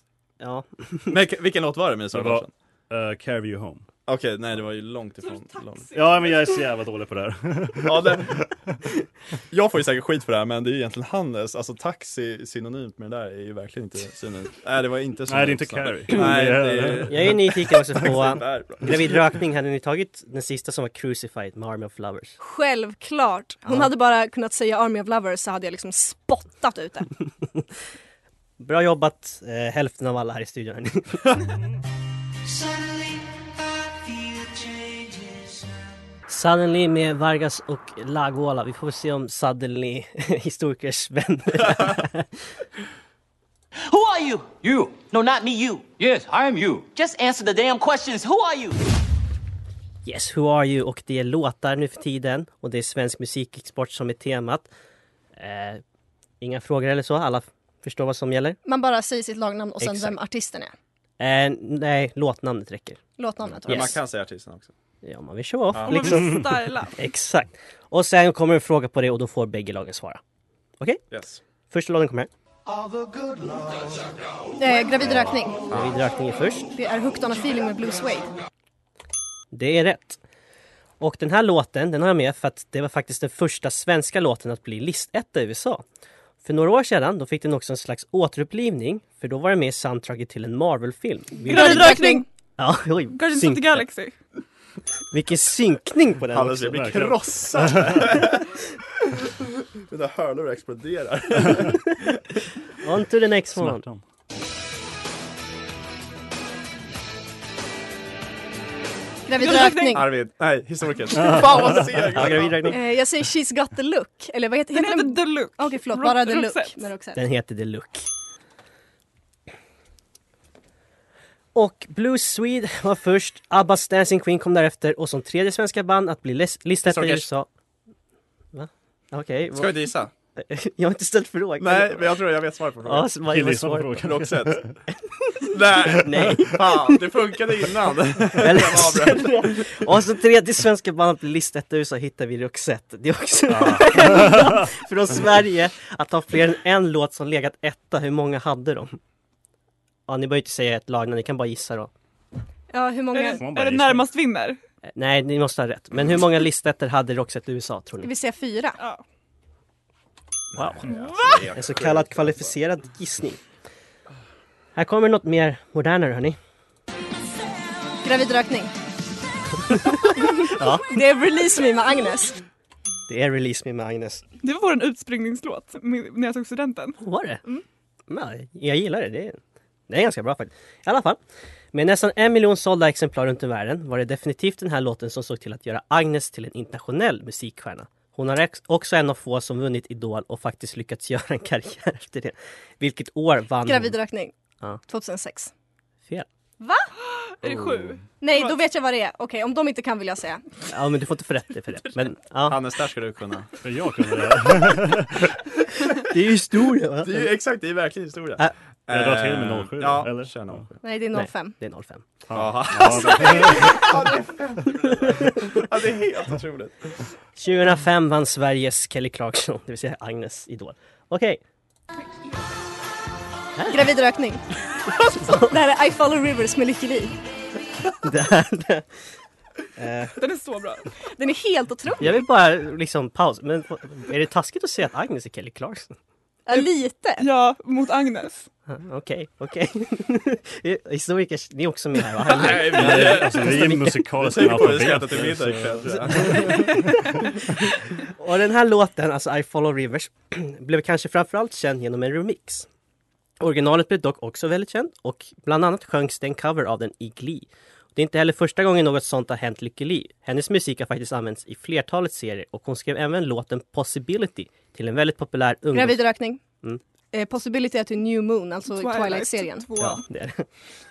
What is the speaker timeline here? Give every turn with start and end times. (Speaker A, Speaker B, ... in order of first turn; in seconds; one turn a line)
Speaker A: 0.4-1.1
Speaker B: 1.1-2.5
Speaker C: 2.1-3.9
Speaker B: 4.0-5.9
Speaker D: 5.2-6.4
Speaker C: 5.9-8.4
Speaker B: 7.8-8.4
Speaker B: 9.5-19.3
Speaker C: 15.3-17.4
Speaker A: 17.1-22.4
Speaker E: 22.4-27.1
Speaker A: 28.6-31.4
Speaker A: 36.3-42.3
Speaker F: 43.9-48.8
Speaker A: 50.0-54.7
Speaker A: 55.4-55.8
Speaker A: 56.4-58.6
Speaker E: 58.6-60.7
Speaker A: 59.8-60.1
Speaker A: 61.2-63.0
Speaker E: 63.2-64.0
Speaker B: 63.6-64.7
Speaker A: 63.7-64.0
Speaker A: 65.0-70.2
Speaker B: 65.7-66.2
Speaker D: 65.9-66.9
Speaker B: 71.1-71.4
Speaker A: 71.7-72.3
Speaker E: 74.6-75.6
Speaker A: 75.7-76.7
Speaker E: 76.7-78.3
Speaker A: 79.5-80.2
Speaker A: 81.0-85.8
Speaker A: 86.4-92.0
Speaker E: 91.4-92.2
Speaker D: 91.5-92.2
Speaker A: 92.6-93.8
Speaker D: 93.1-94.1
Speaker A: 95.1-96.9
Speaker B: 96.3-98.5
Speaker C: 96.7-98.2
Speaker B: 99.9-102.2
Speaker A: 102.8-103.8
Speaker C: 103.6-104.0
Speaker E: 109.3-110.1
Speaker D: 109.4-110.0
Speaker B: 109.9-112.7
Speaker C: 111.2-111.9
Speaker A: 112.1-112.8
Speaker E: 112.7-117.2
Speaker D: 114.7-116.8
Speaker A: 117.2-118.1
Speaker A: 121.5-127.5
Speaker B: 126.8-127.3
Speaker A: 128.5-129.7
Speaker B: 129.5-130.1
Speaker A: 130.4-132.2
Speaker B: 131.6-133.1
Speaker A: 132.8-133.9
Speaker C: 133.3-134.8
Speaker B: 133.9-134.7
Speaker B: 135.5-139.4
Speaker A: 136.0-136.6
Speaker A: 138.4-149.0
Speaker C: 143.6-144.6
Speaker A: 150.1-151.9
Speaker E: 152.7-153.4
Speaker D: 153.1-154.6
Speaker C: 153.3-154.1
Speaker A: 154.9-158.1
Speaker E: 158.0-158.8
Speaker B: 160.5-162.6
Speaker A: 160.6-160.8
Speaker D: 160.9-161.4
Speaker A: 161.5-163.4
Speaker A: 164.7-166.4
Speaker E: 168.0-168.7
Speaker E: 170.1-172.4
Speaker A: 170.5-170.9
Speaker A: 173.1-174.2
Speaker D: 174.4-177.6
Speaker A: 177.0-177.4
Speaker A: 178.1-181.2
Speaker A: 181.7-193.9
Speaker E: 193.6-194.3
Speaker E: 194.9-195.5
Speaker E: 196.6-196.9
Speaker D: 197.0-198.5
Speaker B: 197.5-197.9
Speaker E: 198.2-200.4
Speaker A: 200.7-202.6
Speaker B: 202.4-203.5
Speaker C: 203.6-205.2
Speaker A: 206.1-207.3
Speaker B: 207.0-210.7
Speaker C: 208.9-210.6
Speaker E: 210.8-211.6
Speaker A: 211.1-212.0
Speaker C: 212.3-213.9
Speaker B: 212.3-216.9
Speaker A: 217.4-221.4
Speaker E: 223.7-224.4
Speaker E: 225.0-227.1
Speaker A: 228.0-228.8
Speaker A: 229.8-230.2
Speaker D: 230.2-230.9
Speaker E: 231.1-232.1
Speaker A: 232.0-235.9
Speaker E: 236.4-237.2
Speaker D: 237.2-238.5
Speaker A: 238.7-244.0
Speaker B: 242.3-246.7
Speaker C: 242.7-247.1
Speaker A: 248.2-252.7
Speaker A: 253.4-266.1
Speaker E: 265.7-266.4
Speaker E: 267.1-270.0
Speaker D: 268.7-270.0
Speaker A: 269.8-270.5